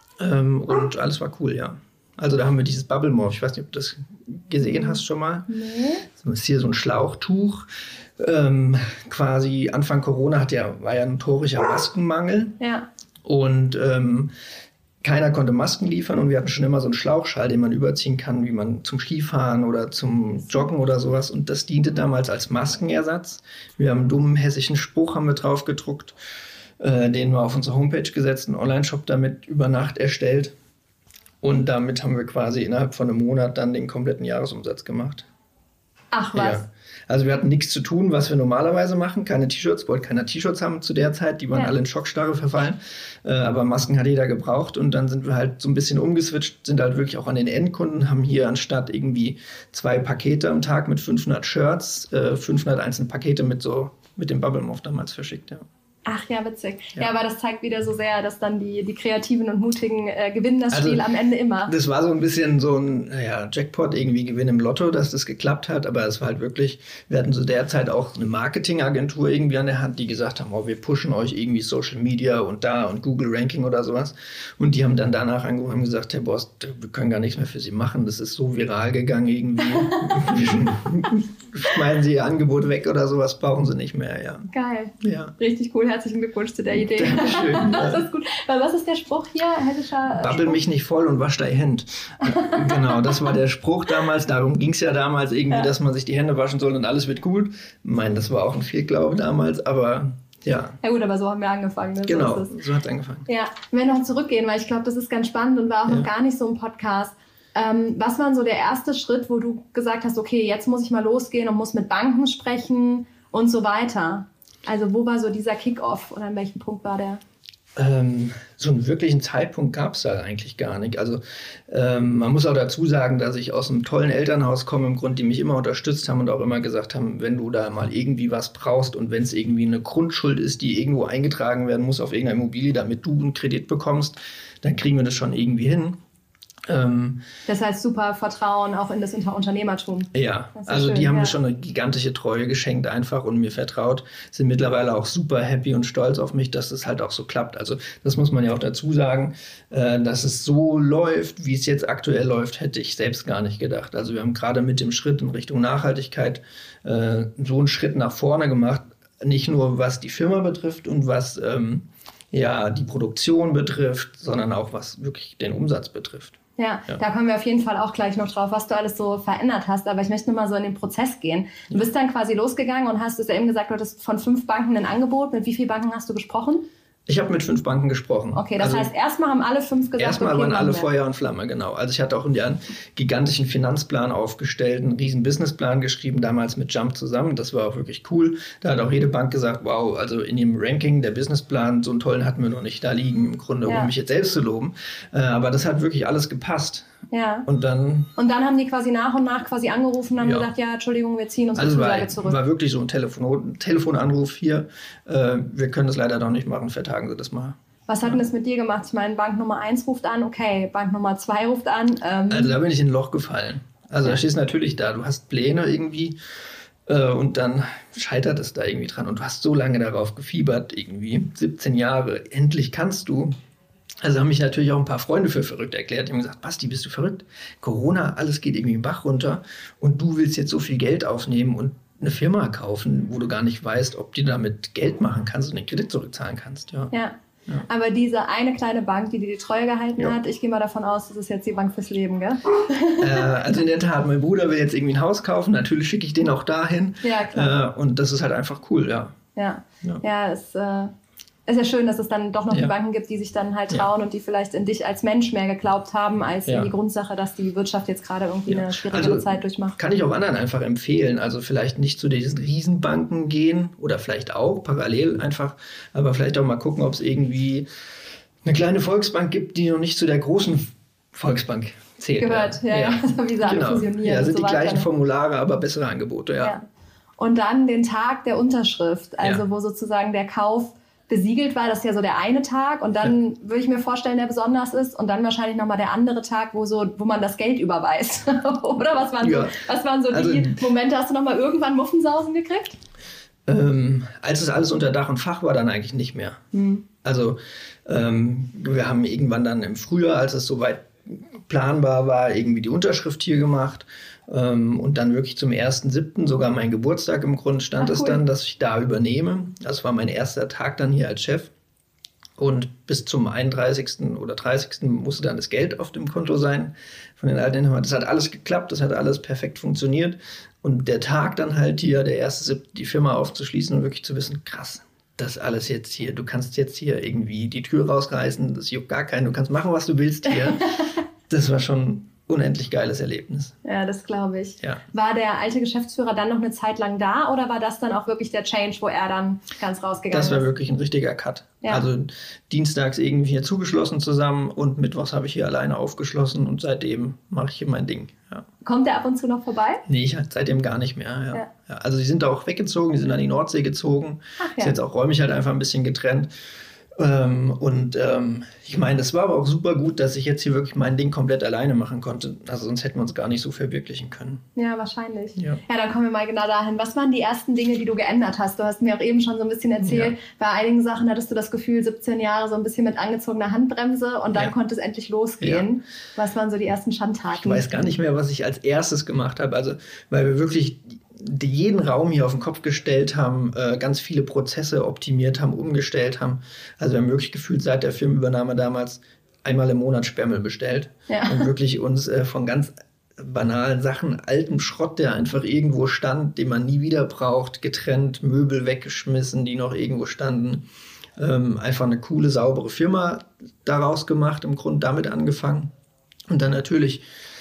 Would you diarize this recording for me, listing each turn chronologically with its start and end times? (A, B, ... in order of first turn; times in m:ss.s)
0:00.2-0:05.5 A
0:04.6-0:06.1 B
0:06.1-0:07.6 A
0:08.2-0:12.6 A
0:12.6-0:12.9 B
0:13.2-0:14.3 A
0:15.0-0:26.1 A
0:26.8-0:30.5 A
0:31.4-0:35.2 A
0:36.1-0:36.6 B
0:36.3-0:55.6 A
0:56.1-1:01.7 B
1:00.7-1:01.0 A
1:01.7-1:25.3 A
1:19.8-1:20.6 B
1:24.5-1:30.6 B
1:26.7-1:28.0 A
1:30.2-1:40.8 A
1:32.2-1:33.3 B
1:40.8-1:42.6 B
1:42.1-1:43.3 A
1:43.3-1:57.2 B
1:57.8-2:16.0 A
2:16.7-2:17.2 A
2:17.5-2:21.4 B
2:20.1-2:46.4 A
2:46.6-2:56.6 B
2:57.1-2:58.9 A
2:58.3-3:00.9 B
3:00.0-3:16.9 A
3:13.7-3:13.9 B
3:17.1-3:17.5 B
3:17.5-3:18.1 A
3:18.2-3:22.4 B
3:20.2-3:20.5 A
3:21.6-3:28.2 A
3:27.9-3:32.6 B
3:32.3-3:36.1 A
3:36.9-3:43.3 A
3:44.0-3:56.9 A
3:57.7-4:03.3 B
4:03.0-4:09.2 A
4:07.0-4:07.6 B
4:09.4-4:10.9 B
4:11.5-4:19.8 B
4:16.5-4:16.7 A
4:18.5-4:27.7 A
4:28.4-4:36.6 A
4:32.2-4:34.9 B
4:37.2-4:52.8 B
4:49.2-4:50.6 A
4:53.5-4:56.4 A
4:56.5-4:56.8 B
4:57.0-5:11.5 A
5:07.8-5:08.2 B
5:12.4-5:33.6 A
5:30.3-5:30.9 B
5:33.6-5:40.5 B
5:40.1-5:48.5 A
5:48.6-5:49.8 B
5:49.9-5:56.3 A
5:54.4-5:54.7 B
5:57.0-6:04.4 A
6:04.6-6:17.9 B
6:09.8-6:10.2 A
6:15.4-6:15.6 A
6:17.4-6:40.6 A
6:31.1-6:31.5 B
6:41.2-6:45.7 A
6:46.3-6:47.0 A